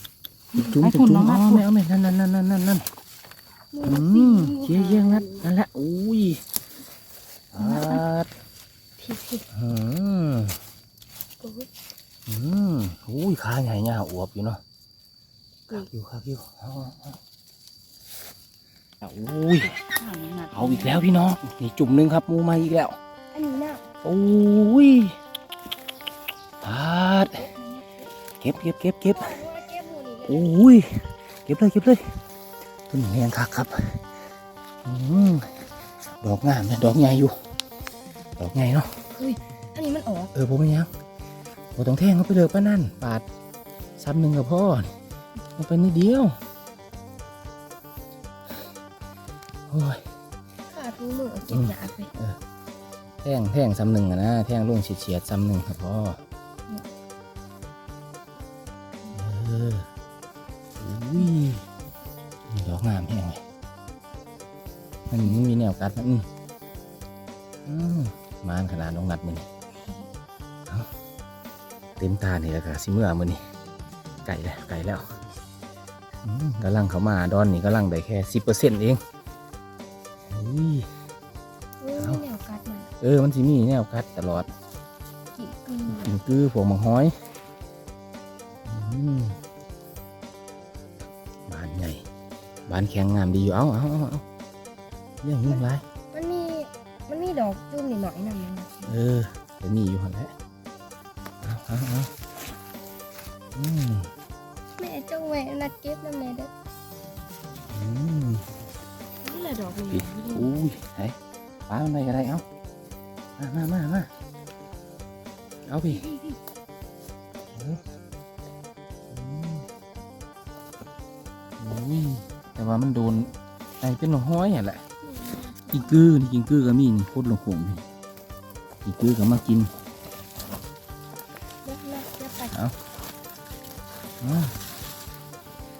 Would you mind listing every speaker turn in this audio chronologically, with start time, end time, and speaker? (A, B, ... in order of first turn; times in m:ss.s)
0:00.5-0:02.8 A
0:00.8-0:01.6 B
0:03.7-0:05.5 C
0:03.9-0:06.4 A
0:07.5-0:08.3 A
0:07.6-0:08.0 C
0:09.0-0:09.4 C
0:09.5-0:10.6 A
0:11.4-0:11.7 C
0:12.3-0:14.6 A
0:15.7-0:17.2 A
0:19.0-0:19.8 A
0:20.0-0:21.1 B
0:20.5-0:23.0 A
0:23.3-0:23.8 C
0:24.0-0:25.1 A
0:26.6-0:27.5 A
0:27.5-0:27.8 C
0:28.4-0:29.4 A
0:29.1-0:30.6 C
0:30.3-0:32.1 A
0:32.9-0:34.0 A
0:34.8-0:35.6 A
0:36.2-0:37.3 A
0:38.4-0:38.9 A
0:39.1-0:40.3 C
0:40.3-0:40.9 A
0:41.8-0:43.2 A
0:44.0-0:44.9 A
0:45.6-0:46.4 A
0:49.7-0:50.0 A
0:50.7-0:52.1 C
0:51.5-0:52.4 A
0:53.2-0:56.2 A
0:59.1-0:59.9 A
1:00.8-1:01.6 A
1:02.5-1:03.4 A
1:05.1-1:06.3 A
1:07.7-1:09.5 A
1:12.0-1:13.4 A
1:14.2-1:15.2 A
1:16.2-1:19.0 A
1:20.3-1:20.9 A
1:21.8-1:22.9 C
1:22.0-1:22.2 A
1:23.0-1:24.5 A
1:25.4-1:26.2 C
1:25.9-1:27.1 A
1:28.7-1:29.4 A
1:31.5-1:32.0 A
1:32.7-1:34.2 A
1:35.2-1:35.8 A
1:35.4-1:39.0 C
1:38.9-1:40.3 A
1:41.4-1:42.1 A
1:43.6-1:44.1 A
1:44.8-1:46.5 C
1:47.7-1:48.4 A
1:49.2-1:50.6 C
1:49.9-1:51.2 A
1:51.7-1:52.4 A
1:53.4-1:54.1 A
1:55.7-1:56.0 A
1:55.9-1:56.4 C
1:57.6-1:57.8 A
1:59.1-1:59.7 A
2:01.6-2:04.8 A
2:05.0-2:06.2 C
2:05.7-2:07.8 A
2:08.8-2:09.7 A
2:11.6-2:12.6 C
2:14.2-2:14.5 A